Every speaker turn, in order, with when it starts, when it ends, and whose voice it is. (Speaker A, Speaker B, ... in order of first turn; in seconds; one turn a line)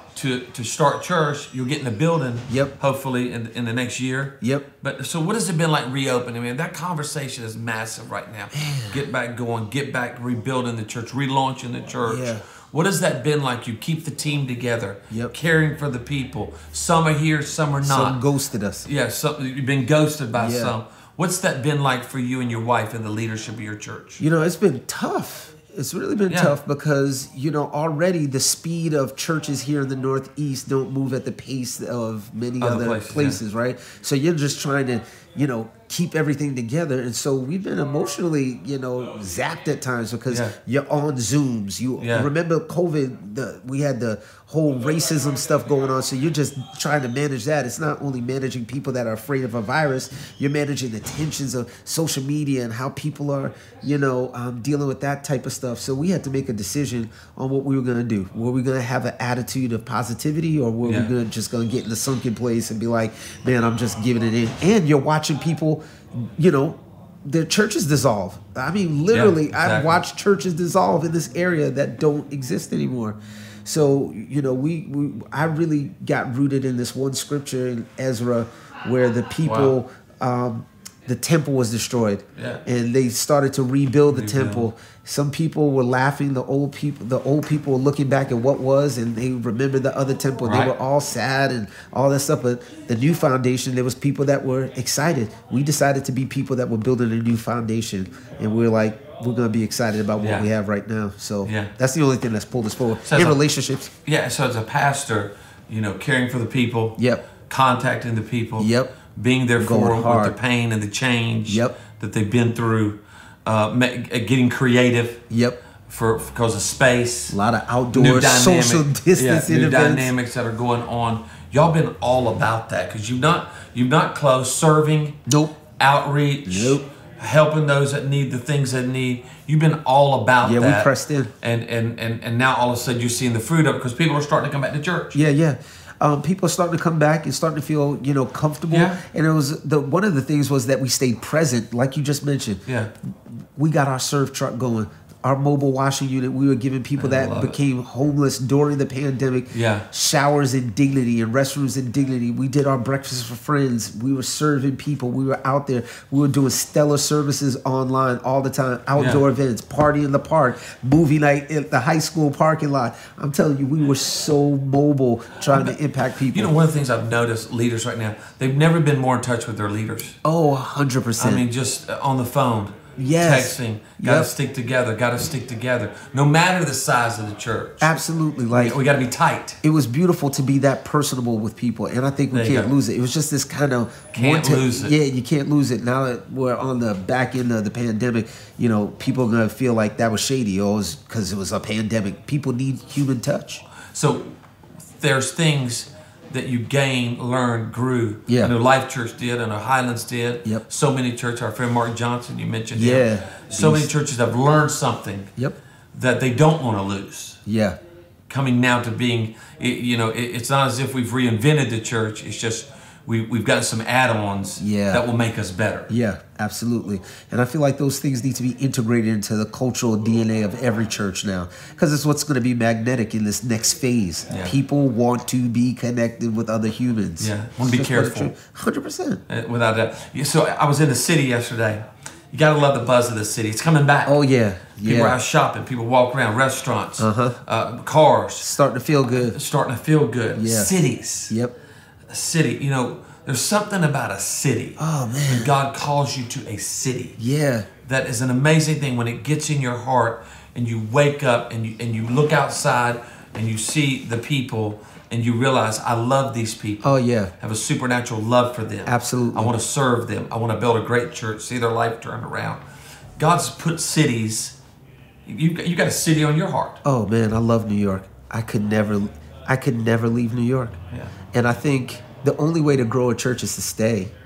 Speaker A: 0.1-18.2
Speaker B: 2.5-2.7
Speaker B: 4.4-4.7
Speaker B: 8.5-9.0
Speaker B: 12.0-12.4
Speaker B: 17.8-18.9
Speaker A: 18.9-24.2
Speaker B: 20.4-20.8
Speaker B: 24.2-103.9
Speaker A: 26.3-26.5
Speaker A: 32.6-33.4
Speaker A: 40.3-40.5
Speaker A: 42.0-42.3
Speaker A: 60.8-61.1
Speaker A: 69.1-70.0
Speaker A: 79.4-79.7
Speaker A: 82.4-82.6
Speaker A: 84.1-84.7
Speaker A: 90.4-90.7
Speaker A: 100.2-100.5
Speaker A: 101.4-101.7
Speaker A: 103.0-103.4
Speaker A: 104.0-115.2
Speaker B: 107.0-107.2
Speaker B: 108.6-108.9
Speaker B: 109.6-110.4
Speaker B: 111.5-111.8
Speaker B: 115.3-115.6
Speaker A: 115.9-117.4
Speaker B: 117.3-120.1
Speaker A: 117.9-125.2
Speaker B: 125.3-125.6
Speaker A: 125.8-130.9
Speaker B: 126.5-126.8
Speaker B: 130.4-131.3
Speaker A: 131.4-135.2
Speaker B: 135.1-142.6
Speaker A: 138.7-139.0
Speaker B: 143.6-166.6
Speaker A: 147.0-147.6
Speaker A: 149.5-149.9
Speaker A: 159.0-159.2
Speaker A: 165.5-165.8
Speaker A: 166.3-170.2
Speaker B: 170.2-171.5
Speaker A: 171.2-177.9
Speaker B: 173.0-174.3
Speaker B: 177.8-178.8
Speaker A: 178.5-179.6
Speaker B: 179.6-193.6
Speaker A: 182.3-182.7
Speaker A: 184.1-184.9
Speaker A: 193.9-194.4
Speaker A: 194.9-205.3
Speaker B: 198.3-198.5
Speaker B: 202.8-203.9
Speaker A: 205.9-207.4
Speaker B: 207.5-207.8
Speaker A: 208.3-215.9
Speaker B: 214.6-215.0
Speaker B: 215.9-229.2
Speaker A: 227.2-228.3
Speaker A: 229.3-234.2
Speaker B: 234.1-235.2
Speaker A: 234.8-238.5
Speaker B: 237.0-237.4
Speaker B: 238.4-239.4
Speaker A: 239.1-241.3
Speaker B: 240.3-240.7
Speaker B: 241.3-241.6
Speaker A: 242.1-247.2
Speaker B: 244.8-245.6
Speaker B: 247.2-247.7
Speaker A: 247.8-262.6
Speaker B: 256.8-257.3
Speaker B: 258.9-259.6
Speaker A: 263.2-264.6
Speaker A: 265.3-266.8
Speaker B: 266.8-270.8
Speaker B: 271.3-274.1